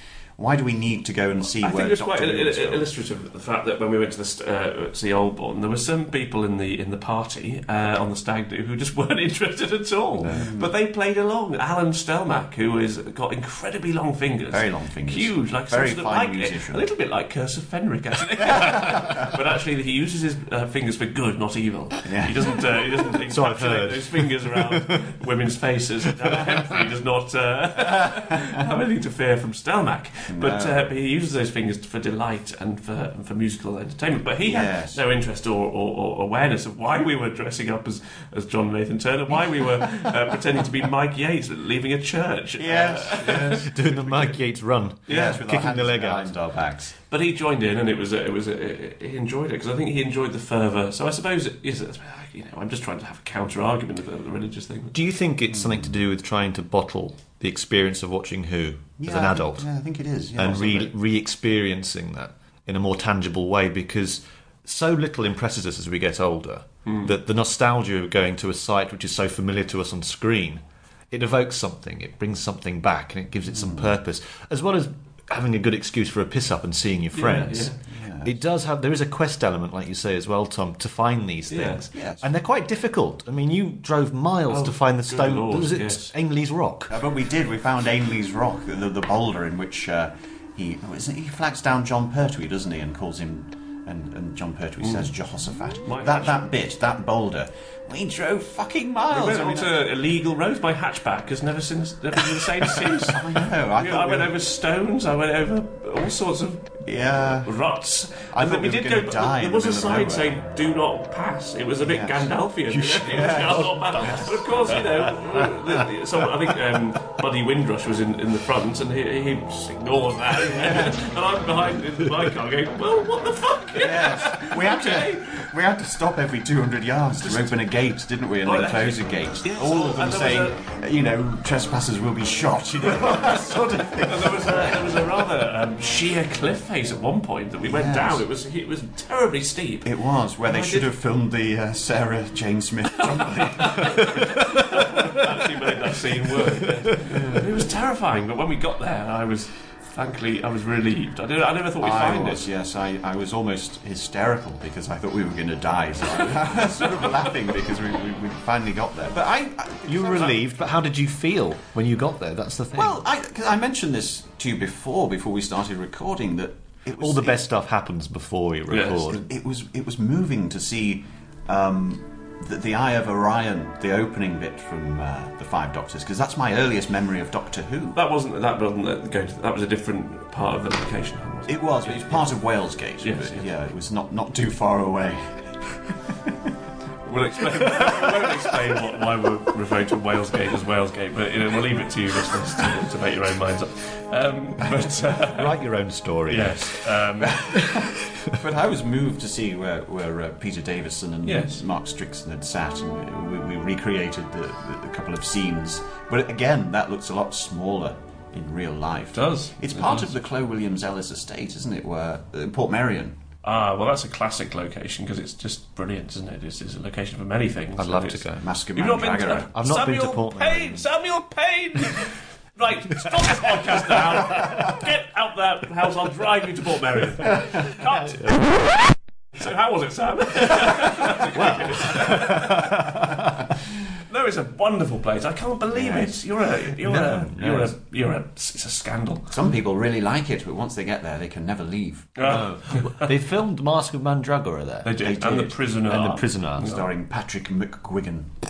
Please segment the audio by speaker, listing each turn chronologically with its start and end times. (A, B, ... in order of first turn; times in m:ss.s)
0:00.4-0:02.9 A
0:01.6-0:44.2 B
0:10.2-0:10.5 C
0:10.3-0:10.7 A
0:14.5-0:16.8 A
0:18.4-0:19.3 A
0:22.0-0:22.6 A
0:23.3-0:25.0 C
0:30.3-0:30.8 A
0:34.4-0:35.0 A
0:39.3-0:40.1 A
0:42.6-0:43.7 A
0:43.3-0:46.4 C
0:45.1-0:45.4 B
0:45.1-0:46.9 A
0:47.1-0:55.0 B
0:54.9-0:59.7 C
0:55.5-0:56.0 A
0:59.0-1:00.9 A
1:00.4-1:27.0 C
1:06.9-1:07.1 B
1:13.5-1:14.0 A
1:17.1-1:17.8 B
1:17.9-1:18.3 A
1:21.5-1:21.8 B
1:21.9-1:22.3 A
1:24.5-1:26.1 B
1:26.9-1:39.8 A
1:34.8-1:35.1 B
1:35.8-1:36.4 B
1:39.1-1:46.8 B
1:42.4-1:44.3 A
1:46.8-1:47.6 A
1:47.4-2:05.4 B
1:48.2-1:50.4 A
1:51.8-1:52.4 A
1:52.7-1:55.7 C
1:53.0-1:54.3 A
2:00.5-2:01.1 A
2:03.8-2:15.0 A
2:07.2-2:07.6 B
2:08.4-2:10.6 B
2:12.9-2:19.9 B
2:17.6-2:18.2 A
2:19.8-2:24.6 A
2:20.5-2:20.9 B
2:23.2-2:32.4 B
2:31.8-2:40.4 A
2:39.9-2:43.0 C
2:42.8-2:47.4 A
2:47.0-2:49.2 C
2:48.7-2:49.0 B
2:49.0-2:58.0 A
2:57.9-3:02.3 B
3:01.5-3:05.8 A
3:03.0-3:03.5 B
3:07.0-3:15.6 B
3:07.6-3:08.4 A
3:14.8-3:16.8 C
3:16.3-3:17.4 B
3:17.2-3:33.2 A
3:17.6-3:18.2 C
3:21.2-3:21.6 B
3:29.1-3:30.1 B
3:33.4-3:48.4 B
3:37.8-3:38.5 C
3:38.4-3:39.5 A
3:39.5-3:40.9 C
3:49.4-3:52.9 B
3:51.3-3:53.2 C
3:54.0-3:59.3 B
3:55.7-3:56.2 A
3:56.8-3:57.7 C
3:59.3-4:02.4 A
4:02.2-4:03.1 B
4:02.2-4:05.1 C
4:04.8-4:06.8 B
4:05.0-4:05.6 A
4:05.7-4:06.8 C
4:06.6-4:08.3 A